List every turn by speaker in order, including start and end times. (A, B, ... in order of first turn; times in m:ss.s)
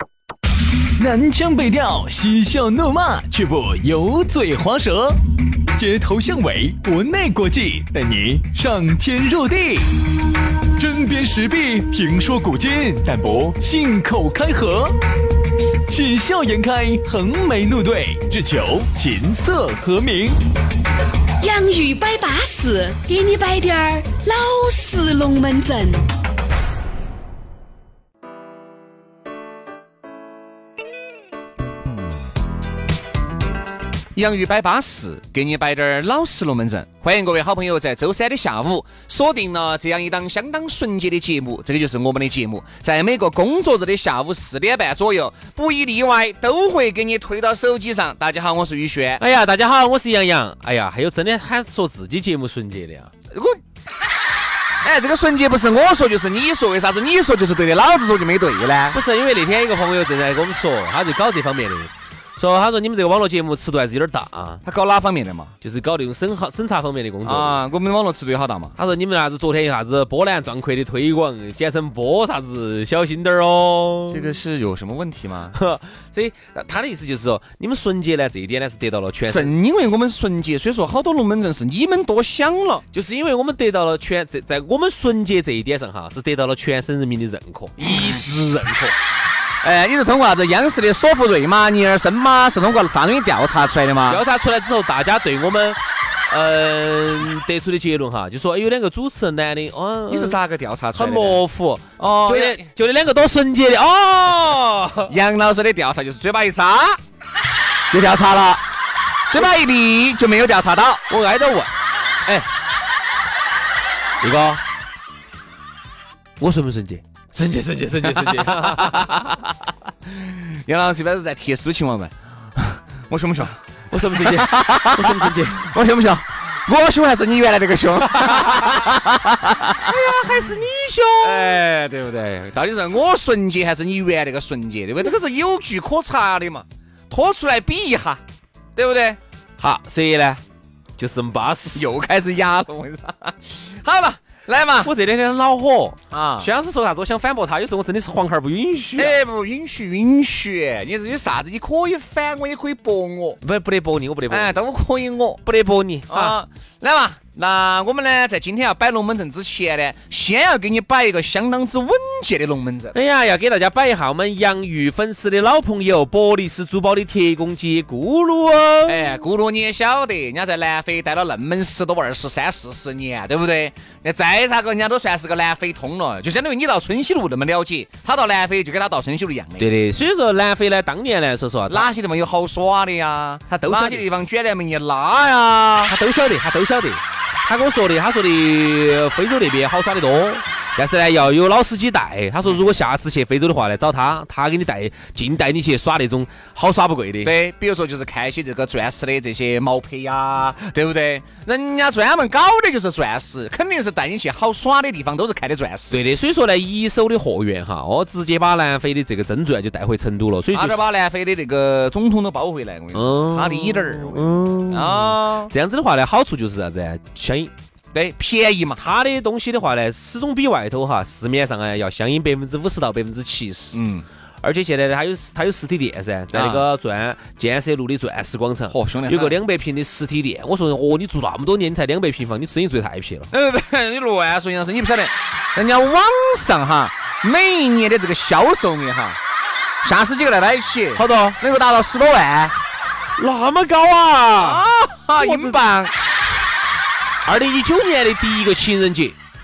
0:01.0-0:05.2 A
0:05.7-0:10.0 A
0:10.7-0:15.0 A
0:15.9-0:20.4 A
0:21.4-0:26.0 B
0:34.1-0:49.2 C
0:49.2-0:53.1 D
0:53.3-0:53.6 C
0:54.8-0:59.0 C
0:58.9-1:04.6 D
1:04.6-1:05.5 C
1:05.6-1:07.6 D
1:07.2-1:08.8 C
1:08.8-1:14.3 D
1:14.1-1:15.6 C
1:15.5-1:19.5 D
1:19.3-1:22.8 C
1:22.9-1:28.9 D
1:27.8-1:28.4 C
1:29.6-1:34.2 C
1:34.1-1:40.4 D
1:40.1-1:41.4 C
1:40.9-1:45.1 D
1:42.2-1:42.6 C
1:45.1-1:47.0 C
1:47.9-1:48.6 C
1:49.3-1:51.0 C
1:51.1-1:51.7 D
1:54.2-1:54.6 D
1:56.4-1:59.4 D
1:58.0-1:59.5 C
2:00.0-2:10.2 C
2:03.9-2:05.7 D
2:08.3-2:08.6 D
2:09.8-2:11.5 D
2:11.2-2:18.2 C
2:18.8-2:19.2 C
2:19.6-2:20.4 D
2:21.0-2:21.9 D
2:21.8-2:24.9 C
2:24.8-2:29.2 D
2:26.1-2:26.5 C
2:29.0-2:33.4 C
2:33.4-2:34.6 D
2:34.3-2:35.4 C
2:35.4-2:36.4 D
2:36.1-2:43.0 C
2:42.9-2:49.0 D
2:48.9-2:59.7 C
2:59.6-3:01.9 D
3:01.7-3:05.9 C
3:03.5-3:04.1 D
3:05.9-3:17.3 D
3:17.2-3:26.0 C
3:25.9-3:30.9 D
3:30.5-3:35.5 C
3:32.9-3:37.5 D
3:37.9-3:38.8 C
3:38.8-3:43.8 D
3:43.7-3:44.1 C
3:44.4-3:53.3 D
3:46.3-3:46.7 C
3:48.7-3:49.4 C
3:53.3-3:59.2 C
3:59.8-4:02.6 C
4:01.0-4:01.4 D
4:03.2-4:04.6 D
4:04.4-4:05.9 C
4:05.2-4:05.6 D
4:07.2-4:09.2 D